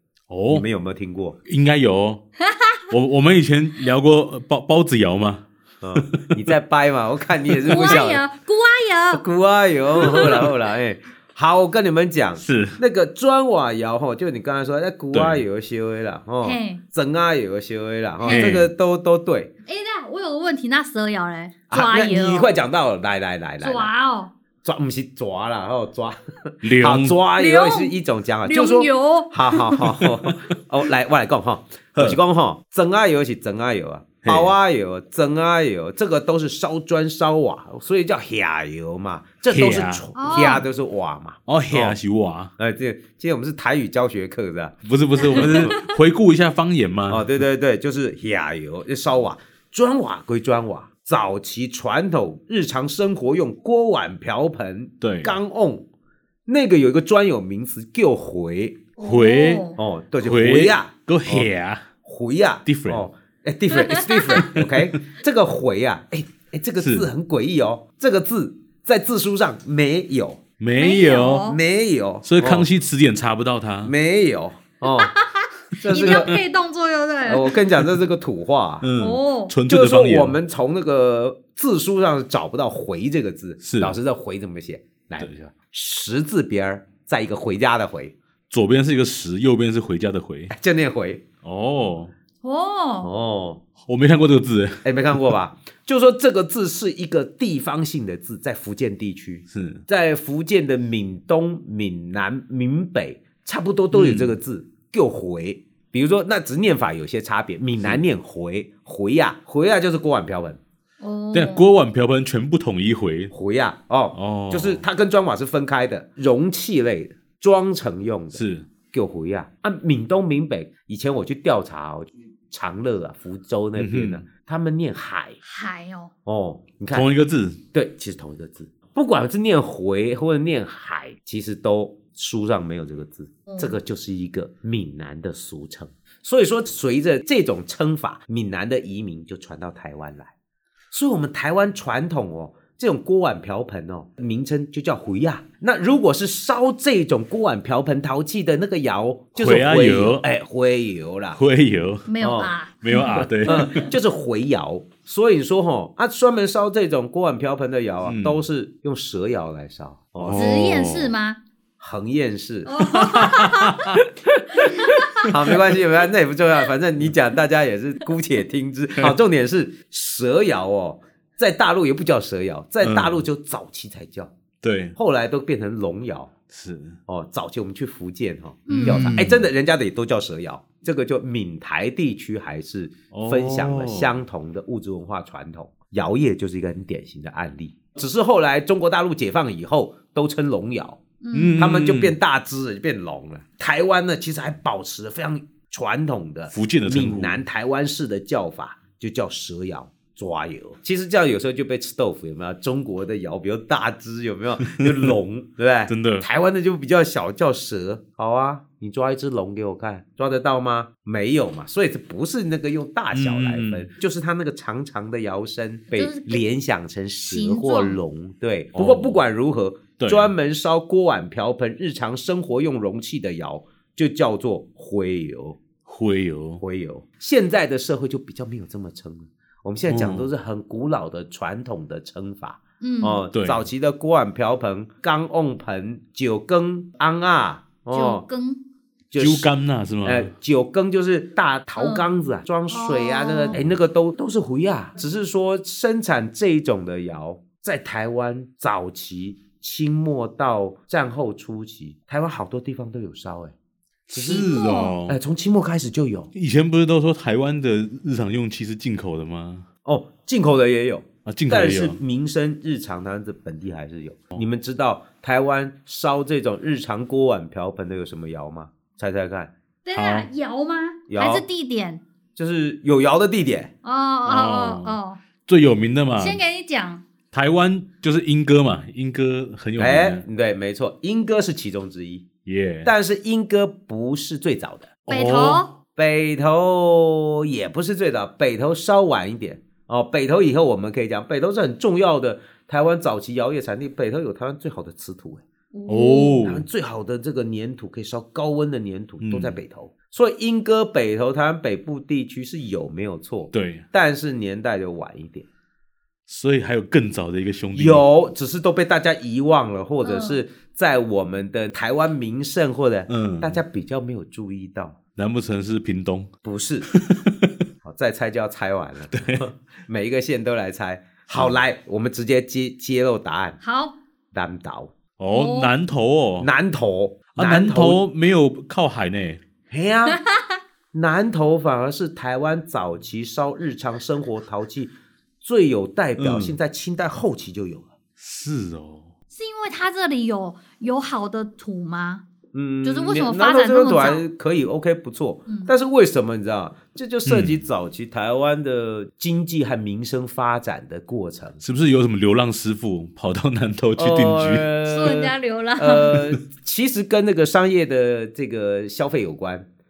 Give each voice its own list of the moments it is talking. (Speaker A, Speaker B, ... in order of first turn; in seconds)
Speaker A: 0.3-0.6, 1.4-2.2, 2.9-6.4, 7.5-8.0, 10.0-10.3, 12.4-12.8, 15.1-15.4, 18.2-18.7, 26.6-27.1, 30.0-30.3, 34.2-34.5, 39.5-40.6, 41.5-42.5, 44.8-47.3, 55.0-55.3, 59.0-59.7, 60.2-61.9, 62.6-63.0, 64.3-64.8, 66.8-67.1, 70.6-71.5, 72.2-73.9, 75.9-76.4, 78.8-80.4, 83.6-84.0, 85.2-85.5, 88.5-90.5, 91.4-92.1, 93.8-95.3, 99.5-99.8, 103.9-104.3, 111.3-113.3, 114.1-114.8, 118.3-118.7, 123.8-124.2, 126.9-127.6, 149.3-150.2, 151.3-152.1, 152.8-153.9, 158.1-158.4, 160.2-161.1, 163.1-164.0, 165.2-165.7, 172.8-173.2, 174.6-174.9, 176.5-177.0, 178.7-179.4, 183.1-184.1, 191.3-192.1, 196.5-197.4, 204.7-205.1, 205.9-206.2, 213.1-213.9, 218.7-219.2, 220.0-220.3, 225.8-226.6, 229.9-230.3, 233.3-233.7, 239.2-240.3, 254.1-255.1, 256.3-259.6, 261.2-262.0, 269.9-270.3, 274.2-276.4, 277.3-280.2, 282.4-282.9, 285.1-285.7, 295.9-296.7, 299.2-299.6, 303.5-303.8, 306.3-308.0, 313.1-313.6, 315.1-316.3, 316.9-317.6, 319.1-319.5, 321.3-321.6, 325.2-326.5, 327.4-329.4, 336.2-336.6, 338.2-339.1, 347.2-347.6, 351.6-354.7
Speaker B: 0.5-1.4, 5.8-8.2, 9.1-19.5, 21.7-23.9, 24.6-42.0, 42.6-44.8, 45.3-45.7, 47.1-55.9, 56.5-58.8, 59.8-61.5, 62.0-70.4, 71.5-72.7, 73.8-75.1, 75.8-76.4, 77.2-78.9, 79.7-88.1, 90.5-91.2, 93.0-93.6, 94.8-110.6, 113.3-125.4, 126.2-127.1, 127.7-140.3, 140.9-151.4, 152.2-160.5, 161.8-163.5, 164.4-174.3, 174.9-176.3, 177.1-191.0, 191.6-225.6, 226.6-238.2, 239.1-239.5, 240.0-253.5, 254.1-256.3, 259.8-269.5, 271.1-271.4, 272.4-273.7, 279.8-282.2, 282.8-284.9, 285.9-295.4, 296.4-305.5, 307.7-315.0, 316.4-316.9, 317.8-323.6, 324.3-324.9, 326.4-328.0, 329.7-330.2, 330.9-337.9, 342.5-351.6, 354.0-359.7
Speaker C: 2.4-2.8, 7.7-9.2, 10.0-10.3, 16.4-16.8, 18.2-18.6, 19.6-22.6, 23.6-24.3, 27.4-29.8, 40.1-40.6, 45.2-45.9, 59.0-59.8, 63.8-64.4, 70.8-71.6, 74.8-77.5, 79.0-79.5, 92.4-93.1, 111.0-111.7, 125.4-126.1, 133.5-133.7, 152.1-153.8, 160.3-161.4, 162.7-163.9, 164.6-165.3, 178.7-179.2, 191.2-191.6, 215.9-216.4, 217.2-218.0, 232.8-233.2, 237.9-238.6, 241.8-242.1, 242.7-243.6, 254.2-254.9, 269.8-272.0, 273.8-275.2, 276.2-277.0, 285.1-285.7, 295.7-296.4, 310.0-310.4, 323.6-324.0, 325.3-325.7, 330.1-330.6, 339.3-342.2, 342.8-344.2, 345.5-345.7, 354.9-356.2